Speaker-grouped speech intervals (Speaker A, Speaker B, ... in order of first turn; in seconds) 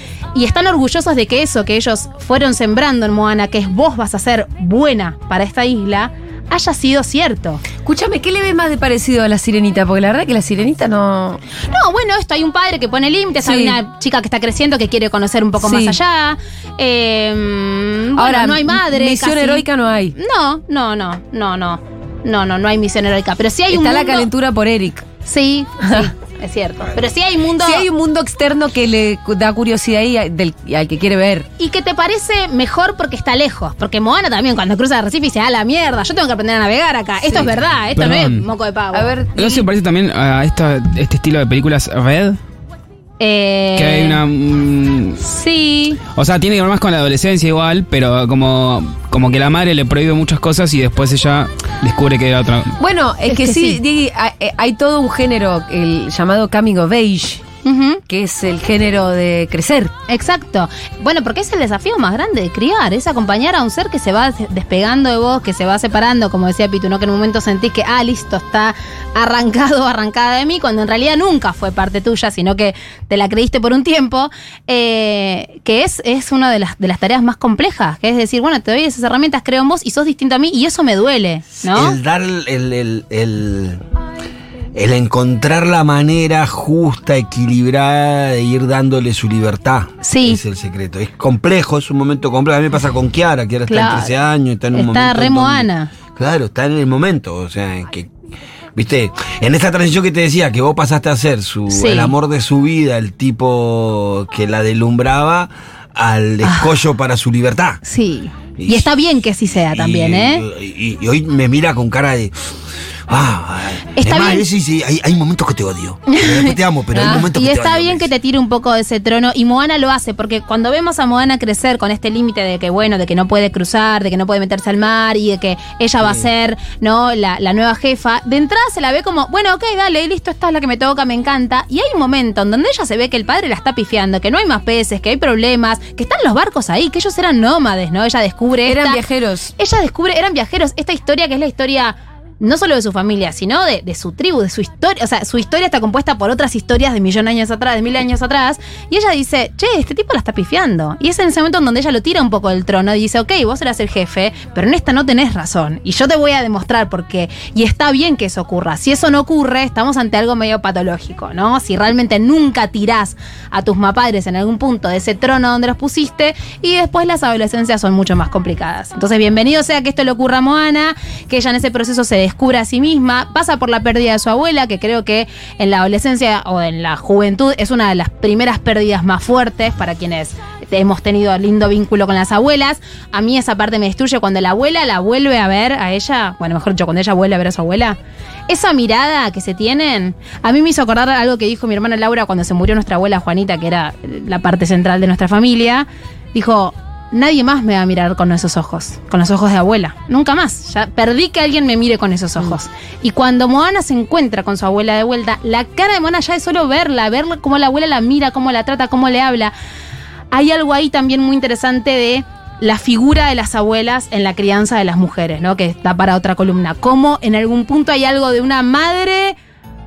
Speaker A: 0.3-7.6, 11.6-24.3, 25.2-27.9, 31.6-39.1, 43.2-44.2, 45.2-46.0, 53.3-53.8, 57.6-58.0, 60.1-82.0, 90.0-90.4, 93.7-94.1, 94.7-95.9, 101.7-102.1, 106.4-106.8, 107.8-110.4, 114.0-114.4, 116.1-139.0, 139.6-188.0, 188.5-209.5, 210.3-219.4
Speaker B: 7.8-11.4, 13.4-13.8, 15.6-16.0, 18.2-20.1, 23.7-25.1, 27.6-31.5, 38.9-39.7, 52.8-57.4, 58.1-59.9, 116.9-117.2, 138.6-139.5
Speaker C: 37.9-38.5, 39.4-42.4, 43.8-45.2, 46.0-52.8
Speaker D: 81.6-83.8, 84.7-98.1, 98.7-107.8, 108.6-108.9, 109.7-112.3, 113.1-118.1